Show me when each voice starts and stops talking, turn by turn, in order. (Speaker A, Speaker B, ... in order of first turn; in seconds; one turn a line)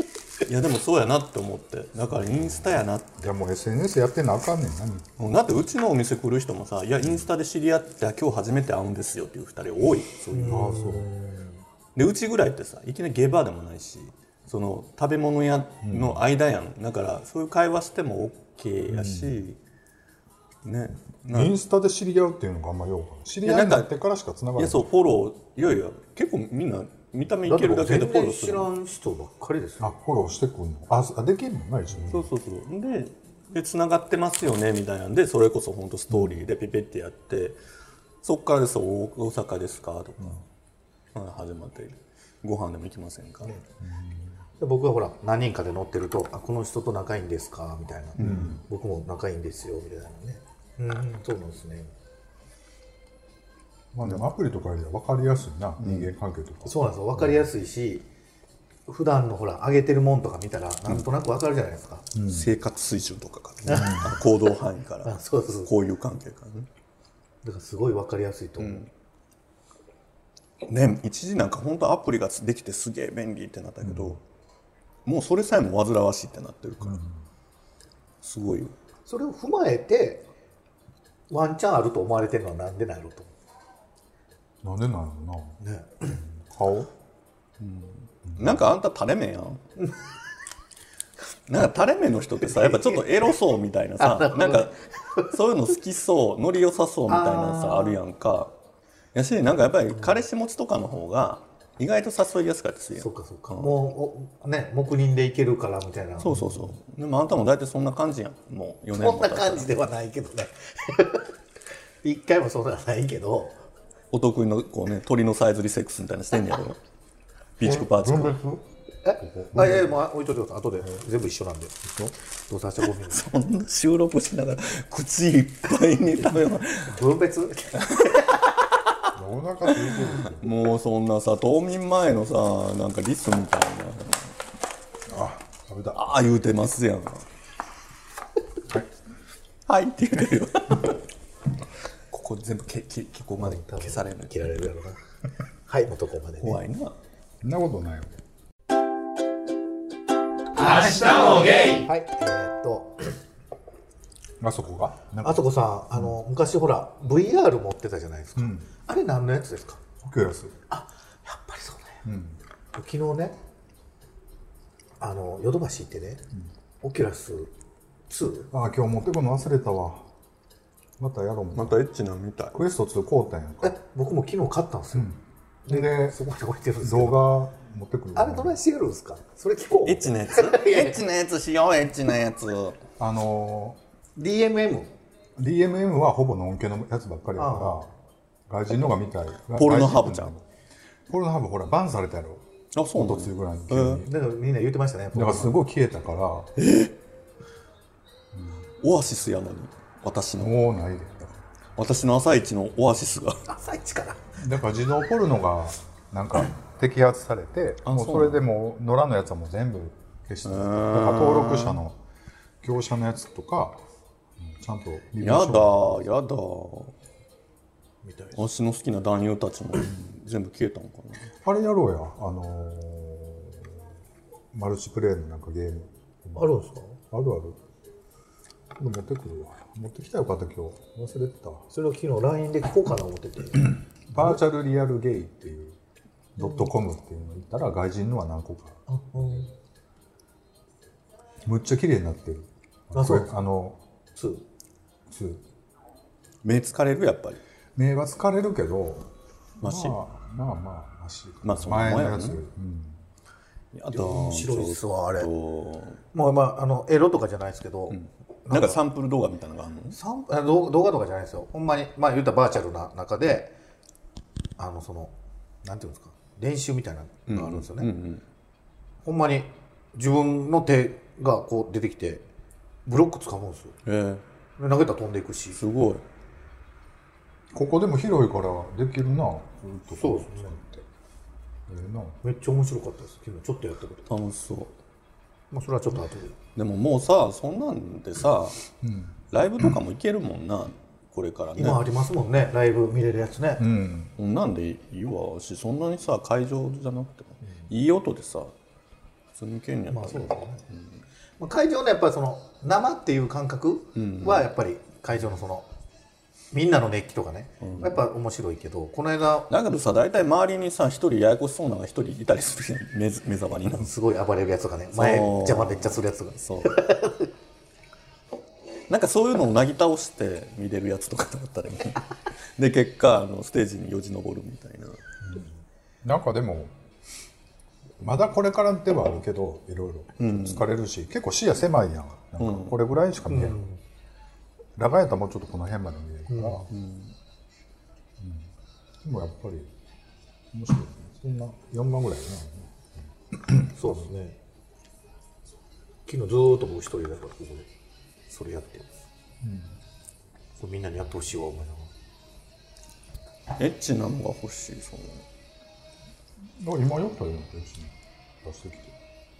Speaker A: 0.4-3.3
Speaker B: 3.2-5.2
Speaker A: 5.2-10.7
Speaker C: 10.3-11.5
Speaker B: 10.4-11.1
Speaker A: 11.9-19.6
Speaker B: 15.8-16.2
Speaker B: 18.9-19.4
Speaker A: 20.6-21.6
Speaker B: 21.3-24.9
Speaker A: 23.4-23.9
Speaker A: 24.6-28.7
Speaker C: 27.4-29.9
Speaker B: 29.8-32.3
Speaker A: 32.1-37.6
Speaker B: 36.1-36.4
Speaker A: 38.2-40.4
Speaker A: 41.1-43.6
Speaker B: 43.8-44.3
Speaker C: 44.6-51.9
Speaker B: 48.2-48.6
Speaker B: 53.9-57.3
Speaker C: 56.6-58.0
Speaker C: 58.9-62.1
Speaker B: 62.1-62.5
Speaker A: 62.2-66.7
Speaker B: 63.6-64.2
Speaker C: 63.7-64.0
Speaker C: 65.0-65.7
Speaker C: 67.4-68.9
Speaker A: 68.6-68.9
Speaker A: 70.6-74.2
Speaker B: 73.8-74.2
Speaker A: 75.0-77.0
Speaker B: 76.8-77.2
Speaker A: 78.2-78.7
Speaker C: 79.0-80.2
Speaker C: 81.3-83.3
Speaker B: 84.6-86.9
Speaker C: 85.6-86.2
Speaker A: 87.6-89.6
Speaker B: 88.3-88.6
Speaker A: 91.5-98.5
Speaker C: 92.4-93.3
Speaker C: 94.0-95.3
Speaker C: 97.1-98.0
Speaker A: 99.1-103.7
Speaker C: 103.0-106.4
Speaker A: 106.2-109.7
Speaker C: 108.9-111.3
Speaker C: 112.0-113.6
Speaker A: 114.1-116.8
Speaker A: 117.6-118.4
Speaker B: 117.6-118.6
Speaker C: 119.0-121.8
Speaker B: 119.2-119.9
Speaker B: 121.8-122.1
Speaker C: 122.5-123.2
Speaker A: 123.0-127.0
Speaker C: 126.8-128.4
Speaker B: 129.1-130.5
Speaker A: 129.8-134.3
Speaker B: 135.1-136.0
Speaker A: 135.9-137.2
Speaker A: 139.7-140.9
Speaker A: 142.1-144.7
Speaker C: 143.4-145.0
Speaker C: 145.7-146.6
Speaker A: 146.4-146.9
Speaker B: 147.4-148.1
Speaker C: 150.6-153.1
Speaker B: 154.4-155.4
Speaker C: 155.2-159.8
Speaker B: 158.4-158.7
Speaker B: 160.0-160.5
Speaker C: 160.7-162.0
Speaker B: 162.0-162.4
Speaker C: 162.7-163.4
Speaker C: 165.0-166.2
Speaker C: 166.8-167.5
Speaker C: 168.1-168.5
Speaker B: 168.5-170.1
Speaker B: 171.0-171.8
Speaker A: 171.5-172.6
Speaker B: 172.5-173.8
Speaker C: 173.6-175.1
Speaker B: 174.9-176.2
Speaker C: 175.7-177.3
Speaker B: 176.8-178.6
Speaker C: 178.2-181.0
Speaker A: 179.8-182.8
Speaker B: 183.0-183.8
Speaker C: 184.2-184.9
Speaker B: 185.4-187.9
Speaker C: 187.4-187.9
Speaker B: 188.5-190.4
Speaker A: 189.5-190.3
Speaker B: 191.1-194.1
Speaker A: 192.7-194.0
Speaker C: 194.1-195.6
Speaker B: 195.1-196.5
Speaker A: 196.6-196.9
Speaker B: 198.3-198.6
Speaker A: 198.8-200.6
Speaker B: 200.4-201.4
Speaker A: 201.8-203.4
Speaker C: 203.5-204.3
Speaker B: 204.4-212.0
Speaker A: 207.8-208.4
Speaker A: 210.4-211.8
Speaker B: 212.6-213.8
Speaker B: 214.4-216.2
Speaker A: 215.2-216.9
Speaker C: 218.0-218.4
Speaker A: 218.3-221.3
Speaker B: 221.4-223.8
Speaker B: 224.5-226.6
Speaker C: 226.3-227.0
Speaker B: 227.1-227.6
Speaker B: 228.8-231.7
Speaker C: 231.7-234.4
Speaker B: 234.1-235.8
Speaker B: 236.3-238.8
Speaker C: 236.4-236.7
Speaker C: 238.9-239.5
Speaker B: 241.4-243.8
Speaker C: 242.9-243.3
Speaker C: 244.1-244.4
Speaker B: 245.1-245.4
Speaker A: 246.4-247.4
Speaker B: 247.8-249.1
Speaker B: 249.6-253.0
Speaker A: 249.6-249.9
Speaker A: 251.4-252.4
Speaker A: 253.7-256.0
Speaker C: 253.9-255.3
Speaker C: 256.1-258.8
Speaker A: 257.9-260.0
Speaker C: 259.9-263.5
Speaker C: 264.6-267.9
Speaker A: 267.3-268.2
Speaker C: 269.0-272.2
Speaker C: 272.9-273.8
Speaker A: 273.8-274.2
Speaker C: 274.6-275.6
Speaker A: 275.6-276.0
Speaker B: 277.5-280.8
Speaker C: 280.0-280.6
Speaker B: 281.7-282.2
Speaker C: 282.2-284.1
Speaker A: 284.1-284.7
Speaker C: 285.5-286.4
Speaker A: 286.6-288.6
Speaker B: 288.8-289.7
Speaker A: 289.3-291.8
Speaker C: 291.6-293.7
Speaker B: 293.6-294.1
Speaker A: 294.2-298.5
Speaker A: 299.4-301.0
Speaker C: 299.9-300.6
Speaker C: 301.4-305.7
Speaker A: 303.9-304.5
Speaker C: 306.5-309.5
Speaker A: 307.6-307.9
Speaker A: 309.5-313.9
Speaker C: 313.7-317.3
Speaker A: 314.9-316.8
Speaker A: 318.9-325.0
Speaker B: 325.2-325.5
Speaker B: 326.0-326.7
Speaker B: 328.0-333.6
Speaker A: 330.2-330.6
Speaker A: 332.4-332.8
Speaker C: 333.3-333.8
Speaker B: 334.8-336.7
Speaker C: 336.3-336.7
Speaker A: 336.7-337.1
Speaker B: 338.2-338.5
Speaker B: 339.0-339.7
Speaker B: 340.5-344.0
Speaker C: 343.7-344.4
Speaker C: 346.1-347.7
Speaker C: 348.3-348.9
Speaker B: 349.4-349.7
Speaker C: 350.6-351.9
Speaker A: 353.6-355.2
Speaker B: 356.6-358.9